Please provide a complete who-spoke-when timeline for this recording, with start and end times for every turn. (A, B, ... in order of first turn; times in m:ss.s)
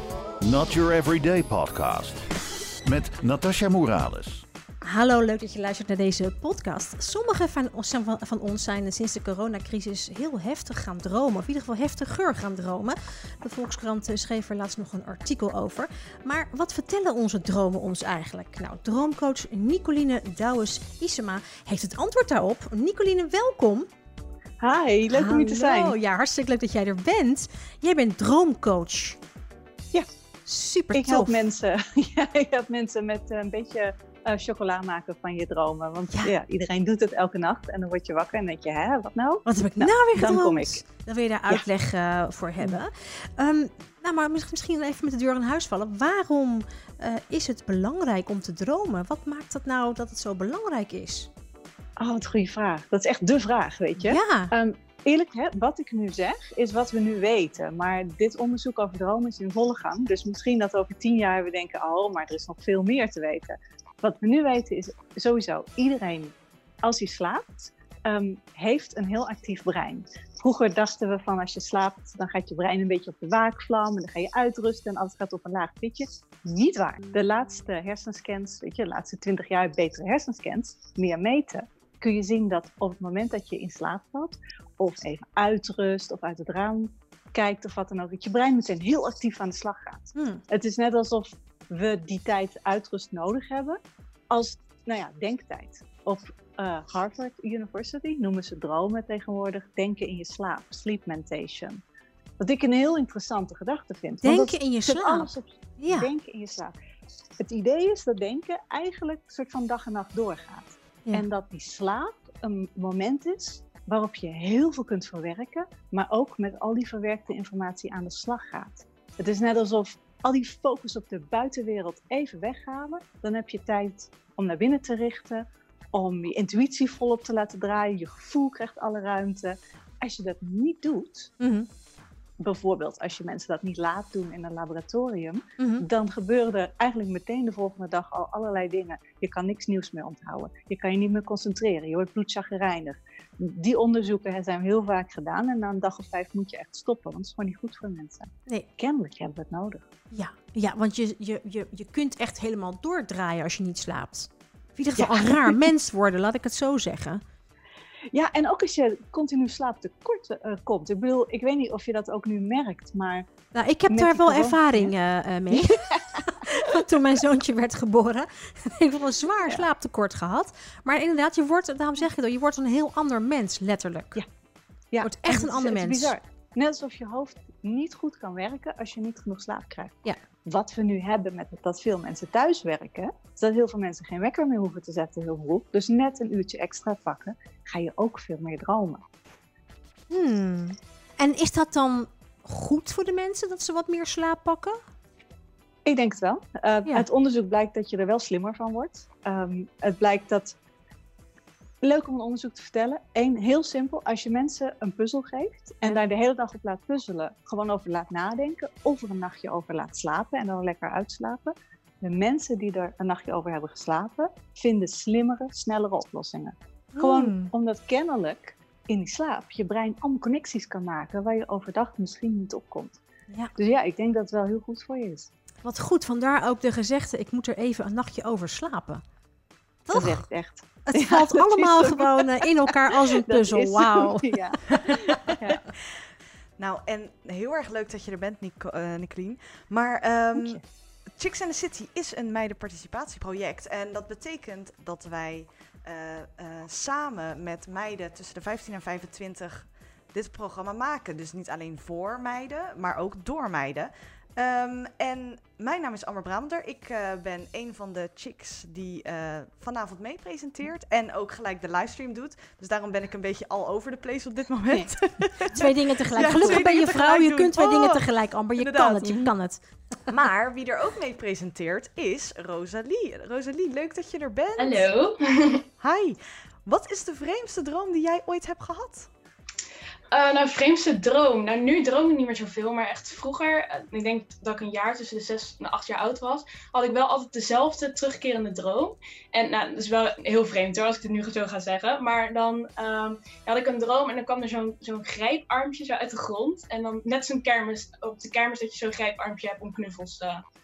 0:00.4-0:02.2 A
0:02.8-0:04.4 A
0:04.8-0:23.9 B
0:24.6-0:26.0 C
0:25.1-0:29.2 B
0:30.4-0:31.3 B
0:30.9-0:40.8 C
0:39.4-0:51.3 B
0:52.0-1:33.8 C
0:54.0-0:54.5 B
1:30.1-1:30.4 B
1:34.3-1:41.8 C
1:42.4-1:46.7 C
1:44.2-1:46.1 B
1:47.4-2:11.3 C
2:11.4-2:11.7 B
2:12.4-2:29.8 C
2:15.6-2:15.8 B
2:30.1-2:37.2 B
2:35.0-2:35.6 C
2:38.1-2:43.3 C
2:43.5-2:54.2 B
2:43.9-2:44.9 C
2:45.5-2:46.8 C
2:54.9-3:09.0 C
2:55.0-2:56.1 B
3:10.1-3:14.8 B
3:15.8-3:20.5 C
3:21.8-3:43.0 C
3:36.9-3:37.5 B
3:43.6-3:45.3 C
3:45.6-3:49.0 B
3:49.8-3:50.2 B
3:49.9-3:55.6 C
3:50.9-3:54.9 B
3:56.6-4:28.0 D
4:00.3-4:00.6 C
4:25.5-4:29.6 B
4:28.6-4:29.3 D
4:30.1-4:34.9 D
4:34.6-4:35.6 E
4:35.8-4:39.1 D
4:40.1-5:00.4 E